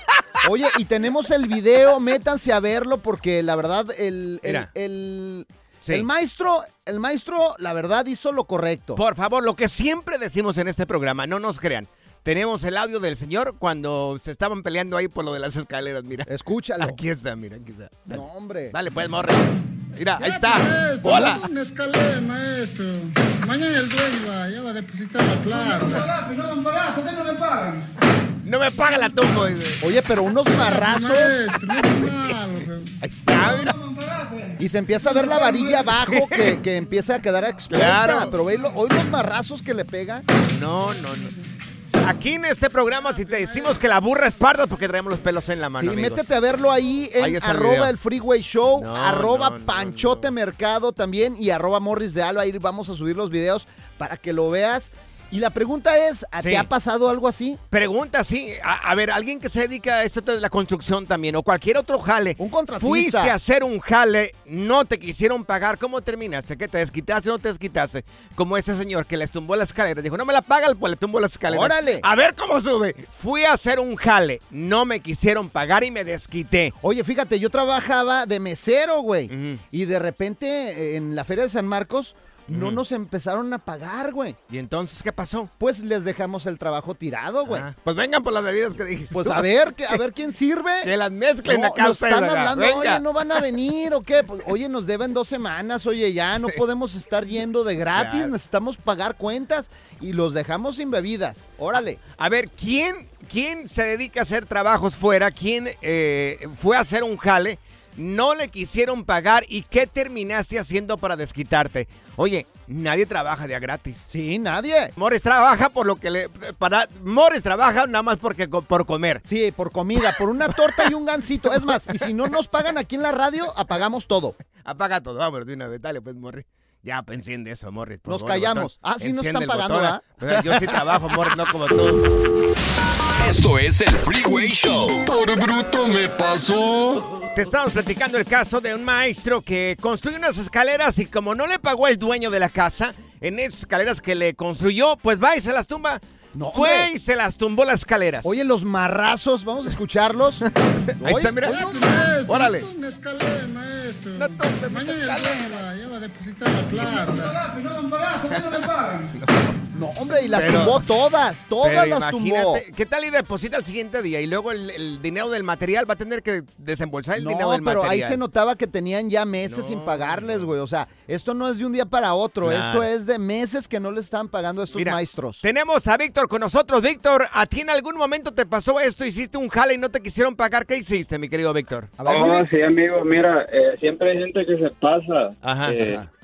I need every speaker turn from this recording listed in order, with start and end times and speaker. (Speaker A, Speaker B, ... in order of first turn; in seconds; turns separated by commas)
Speaker A: 0.4-9.0, Speaker B: 4.4-4.7, Speaker B: 9.0-16.3, Speaker A: 16.3-17.0, Speaker B: 16.8-21.4, Speaker A: 18.1-18.8, Speaker C: 20.2-26.1, Speaker B: 28.4-29.8, Speaker A: 29.8-31.4, Speaker C: 30.6-32.9, Speaker B: 31.8-32.3, Speaker B: 33.0-33.8, Speaker A: 34.6-40.2, Speaker B: 35.9-36.6, Speaker B: 37.7-38.4, Speaker B: 40.5-41.3, Speaker B: 41.9-46.3, Speaker A: 45.8-57.6, Speaker B: 47.2-47.9, Speaker B: 48.8-50.3, Speaker B: 56.4-56.7, Speaker B: 57.7-76.8, Speaker A: 62.4-63.4, Speaker A: 71.5-72.1, Speaker A: 76.8-84.4, Speaker B: 79.3-79.6, Speaker B: 82.5-82.8, Speaker B: 84.5-85.5, Speaker A: 85.6-87.7, Speaker B: 87.5-90.0, Speaker A: 89.1-90.9, Speaker B: 90.8-93.4, Speaker A: 91.5-102.0, Speaker B: 98.0-98.3, Speaker B: 102.2-114.1, Speaker A: 114.1-114.9, Speaker B: 115.0-119.2, Speaker A: 119.2-124.3, Speaker B: 121.5-122.0, Speaker B: 124.6-132.1, Speaker A: 128.1-130.8, Speaker D: 133.2-135.1, Speaker B: 137.3-146.0, Speaker A: 146.3-146.9, Speaker B: 146.5-148.3, Speaker A: 148.2-150.4, Speaker B: 150.9-152.7, Speaker A: 151.0-151.6, Speaker C: 151.4-157.4, Speaker B: 154.2-155.7, Speaker B: 156.7-157.0, Speaker B: 158.2-159.6, Speaker A: 159.7-162.6, Speaker B: 160.3-160.8, Speaker B: 161.6-168.2, Speaker A: 167.2-175.4, Speaker B: 169.4-170.5, Speaker B: 172.4-172.9, Speaker B: 174.7-182.0, Speaker A: 182.0-182.5, Speaker E: 182.1-186.0, Speaker B: 185.4-186.0